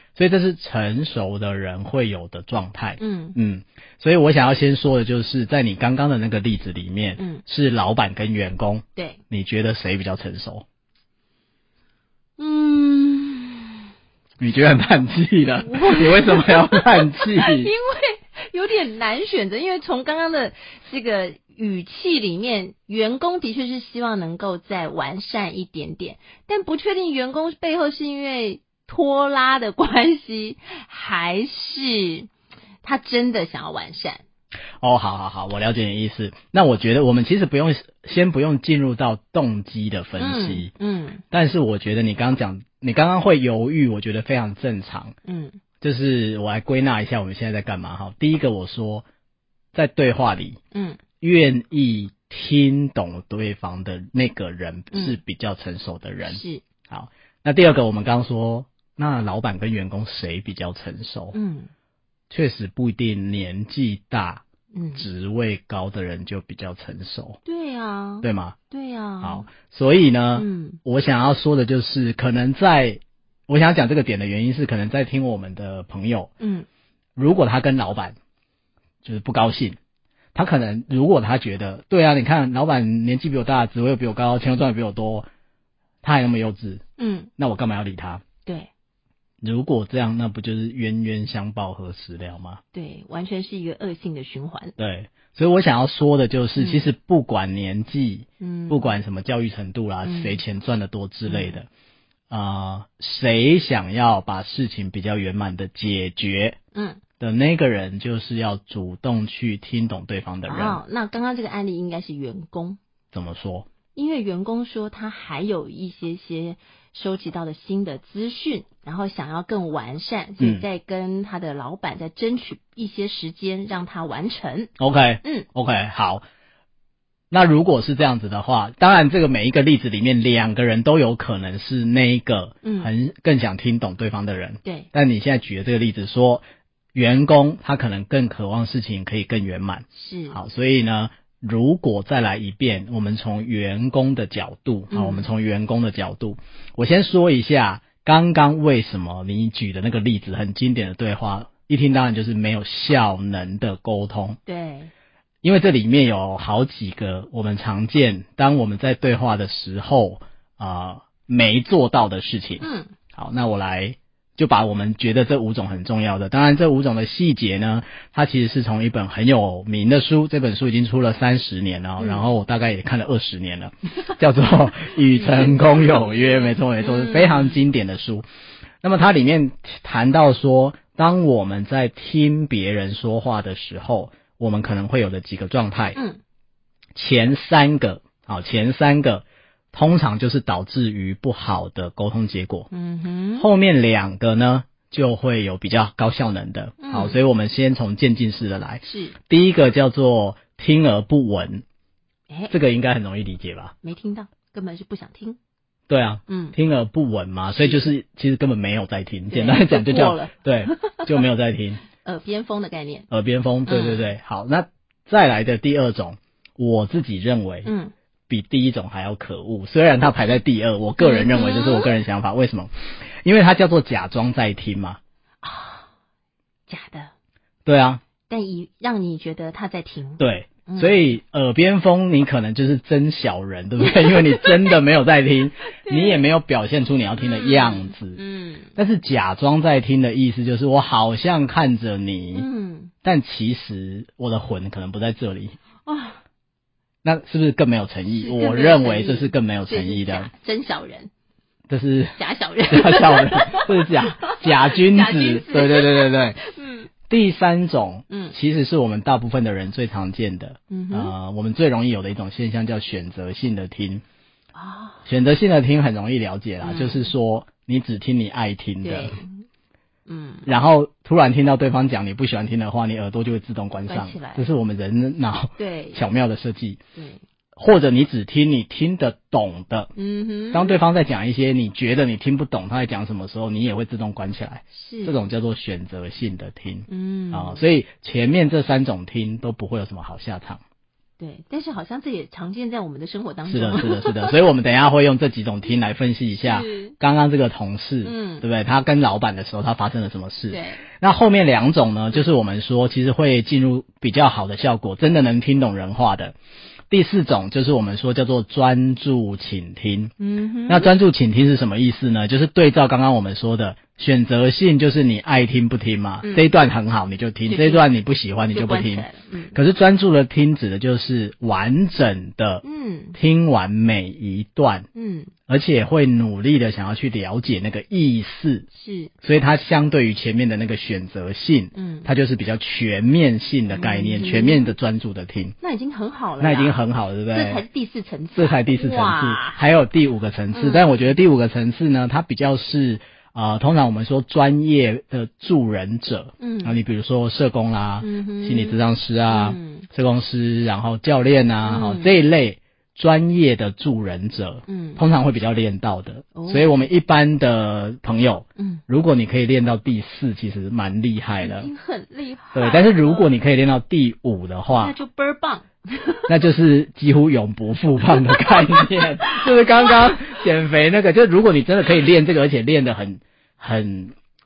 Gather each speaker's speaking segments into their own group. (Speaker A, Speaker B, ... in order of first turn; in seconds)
Speaker A: 0.1-10.6, 14.4-17.7, 34.8-40.7, 41.3-45.1, 45.8-49.0, 49.7-50.6, 51.2-61.4, 62.3-64.4, 64.9-67.4, 68.2-68.5, 69.2-76.3, 77.2-78.2, 79.0-79.8, 80.3-85.3, 86.0-86.8, 87.4-88.2, 89.4-92.6, 94.8-101.7, 102.3-106.6, 107.2-110.8, 113.1-113.7, 120.4-120.6, 124.8-126.2, 127.3-136.4, 136.9-154.4, 155.4-178.2, 178.8-186.0, 186.9-192.7, 193.4-201.6, 202.5-203.7, 205.9-211.8, 213.1-217.7, 218.3-225.0, 227.6-228.0, 230.2-238.2, 238.8-242.5, 243.0-245.6, 247.0-250.3, 251.7-252.2, 252.7-256.4, 257.1-264.0, 265.1-269.2, 270.4-276.8, 277.6-279.9, 280.5-290.6, 293.5-306.3, 306.9-310.1, 310.7-322.6, 323.1-324.9, 325.5-328.6, 329.2-335.6, 336.4-337.6, 338.3-361.7, 362.5-364.9, 366.3-374.1
Speaker B: 3.0-3.4, 7.2-7.4, 8.9-9.2, 12.4-13.8, 15.6-32.3, 32.8-34.2, 40.2-41.2, 45.2-45.6, 50.7-51.0, 54.9-55.2, 56.2-56.6, 61.3-61.7, 64.7-65.1, 67.4-69.5, 70.3-70.8, 76.4-76.7, 87.0-87.3, 92.7-94.7, 96.5-96.8, 98.4-99.0, 100.0-100.4, 101.3-101.6, 106.7-107.0, 110.5-112.8, 113.9-124.7, 132.6-132.9, 134.6-134.9, 139.9-140.4, 144.9-145.3, 154.4-154.9, 162.6-162.9, 172.0-172.2, 175.1-176.1, 176.8-177.6, 185.9-186.2, 192.7-193.5, 196.8-197.2, 198.8-199.2, 202.3-202.5, 203.8-205.4, 206.3-206.6, 207.6-207.8, 209.3-211.2, 212.0-213.1, 213.7-214.1, 217.6-217.9, 221.0-221.9, 225.4-225.8, 226.7-227.1, 228.3-231.1, 233.8-234.8, 235.7-236.3, 237.2-238.7, 242.3-242.9, 245.8-246.2, 248.1-251.1, 252.2-256.9, 258.1-258.3, 260.7-261.1, 264.5-265.0, 266.6-267.1, 268.8-269.4, 270.1-270.5, 273.9-274.5, 275.6-276.0, 276.9-277.2, 279.9-280.8, 284.7-285.2, 286.9-287.6, 291.2-294.4, 296.4-296.9, 298.0-298.4, 300.5-300.8, 310.2-310.9, 316.2-316.5, 317.5-317.9, 318.5-319.6, 322.6-323.2, 324.9-325.3, 328.7-329.1, 331.7-332.1, 333.7-334.7, 335.6-336.8, 337.3-339.6, 340.5-341.1, 346.4-346.8, 348.0-349.9, 351.6-352.1, 354.7-355.0, 356.3-356.9, 358.6-358.8, 361.4-363.3, 364.7-366.3, 368.1-370.3